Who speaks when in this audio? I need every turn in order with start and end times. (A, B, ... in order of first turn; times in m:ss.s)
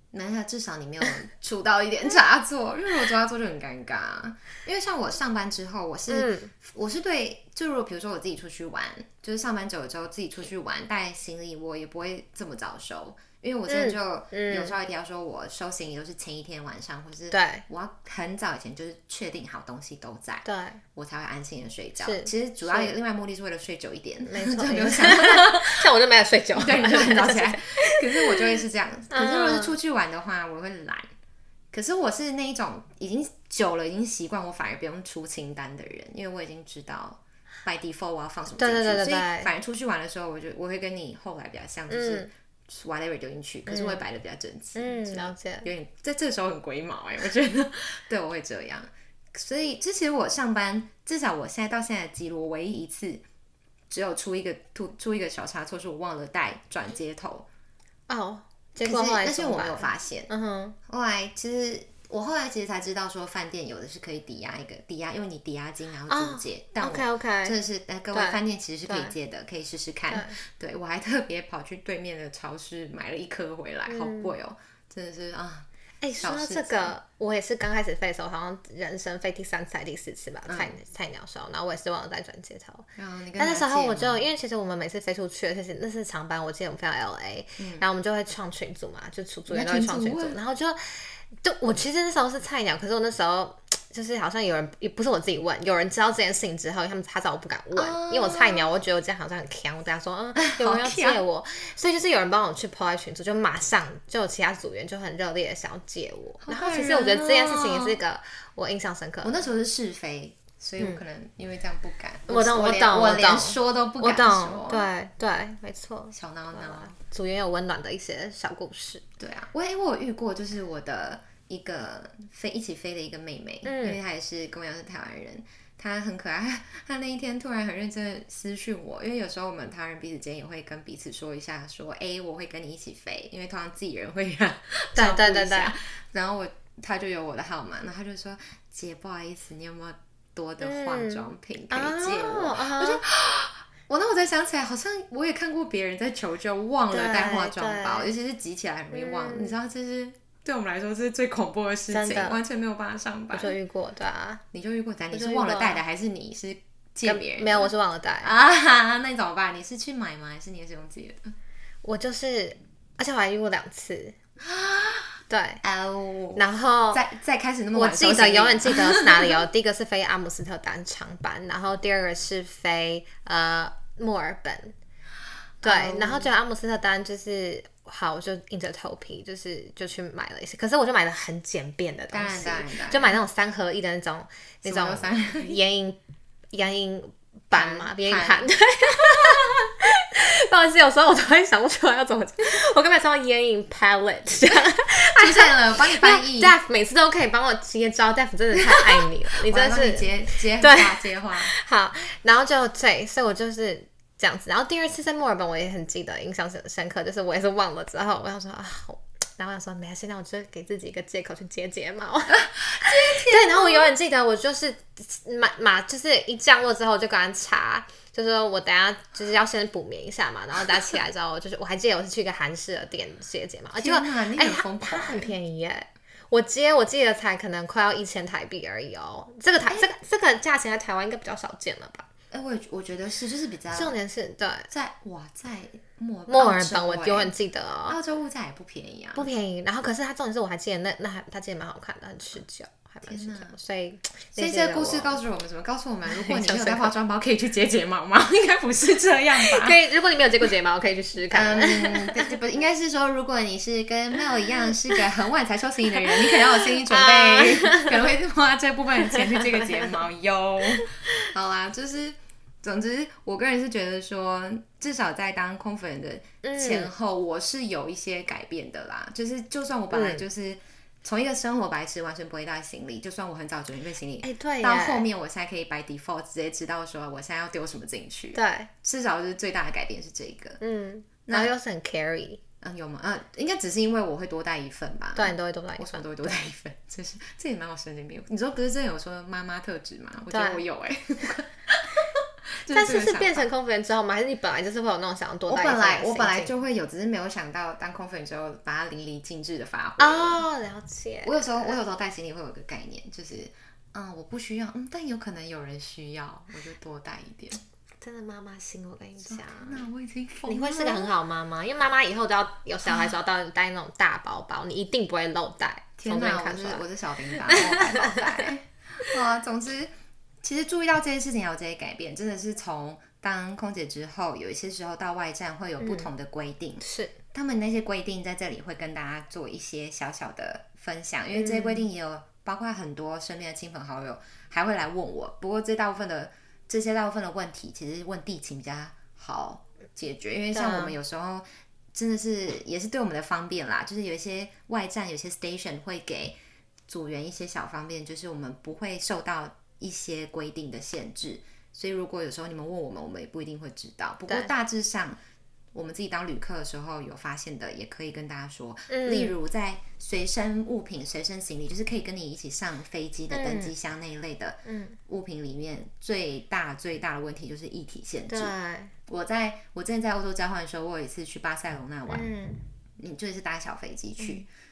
0:00.1-0:25.8 A
0:06.1-0:06.5 B
0:13.7-0:14.7 B
0:17.3-0:17.6 B
0:20.4-0:20.8 B
0:22.0-0:22.9 B
0:24.2-0:29.8 B
0:26.5-0:31.1 A
0:31.7-0:53.2 A
0:38.5-0:39.5 B
0:41.9-0:42.3 B
0:43.7-0:44.0 B
0:44.8-0:45.7 B
0:53.9-0:57.5 A
0:58.1-1:00.8 B
0:58.8-1:00.3 A
1:00.9-1:16.9 A
1:06.1-1:07.6 B
1:08.1-1:09.1 B
1:10.1-1:10.4 B
1:13.9-1:14.3 B
1:16.0-1:49.4 B
1:20.5-1:20.8 A
1:23.0-1:24.3 A
1:27.6-1:27.8 A
1:29.5-1:30.4 A
1:37.7-1:38.7 A
1:40.4-1:41.2 A
1:46.4-1:48.0 A
1:49.2-1:54.9 A
1:52.3-1:59.0 B
1:56.1-1:56.9 A
1:59.2-2:33.5 A
2:03.6-2:04.0 B
2:14.9-2:15.7 B
2:20.6-2:23.0 B
2:26.9-2:28.1 B
2:28.9-2:29.6 B
2:31.9-2:32.4 B
2:33.3-2:34.4 B
2:34.5-2:41.3 A
2:35.1-2:35.8 B
2:37.0-2:38.3 B
2:41.8-2:44.2 B
2:44.4-2:45.1 A
2:45.3-2:45.6 B
2:45.6-2:49.4 A
2:46.4-2:47.0 B
2:47.7-2:54.7 B
2:55.6-2:56.3 A
2:55.6-3:06.0 B
3:02.1-3:03.2 A
3:04.6-3:05.6 A
3:06.5-3:52.1 B
3:07.5-3:08.5 A
3:15.1-3:16.5 A
3:18.5-3:21.5 A
3:32.3-3:33.9 A
3:43.7-3:45.3 A
3:52.3-3:54.0 A
3:53.7-3:54.7 B
3:54.7-3:57.3 A
3:56.3-3:58.0 B
3:57.9-3:59.3 A
3:59.1-4:05.2 B
4:03.0-4:03.6 A
4:04.3-4:09.8 A
4:06.0-4:06.9 B
4:09.4-4:12.3 B
4:11.3-4:40.6 A
4:16.0-4:18.0 B
4:19.1-4:19.9 B
4:20.8-4:21.1 B
4:26.4-4:26.9 B
4:29.9-4:30.2 B
4:34.2-4:35.0 B
4:38.3-4:38.7 B
4:40.6-4:42.4 B
4:41.2-4:41.5 A
4:42.6-4:53.4 A
4:45.2-4:46.3 B
4:50.3-4:50.6 B
4:52.7-4:56.5 B
4:55.5-5:00.4 A
5:00.0-5:01.8 B
5:01.2-5:07.6 A
5:08.0-5:09.8 B
5:09.2-5:11.1 A
5:10.5-5:16.8 B
5:12.8-5:13.1 A
5:16.0-5:19.9 A
5:17.4-5:18.5 B
5:20.4-5:46.4 A
5:25.8-5:26.1 B
5:26.8-5:27.1 B
5:31.3-5:31.9 B
5:40.5-5:41.0 B
5:46.9-5:55.2 A
5:55.7-6:08.5 A
5:58.9-5:59.4 B
6:03.3-6:03.7 B
6:04.6-6:05.0 B
6:08.3-6:08.9 B
6:09.1-6:12.3 A
6:12.1-6:12.6 B
6:13.0-6:14.5 A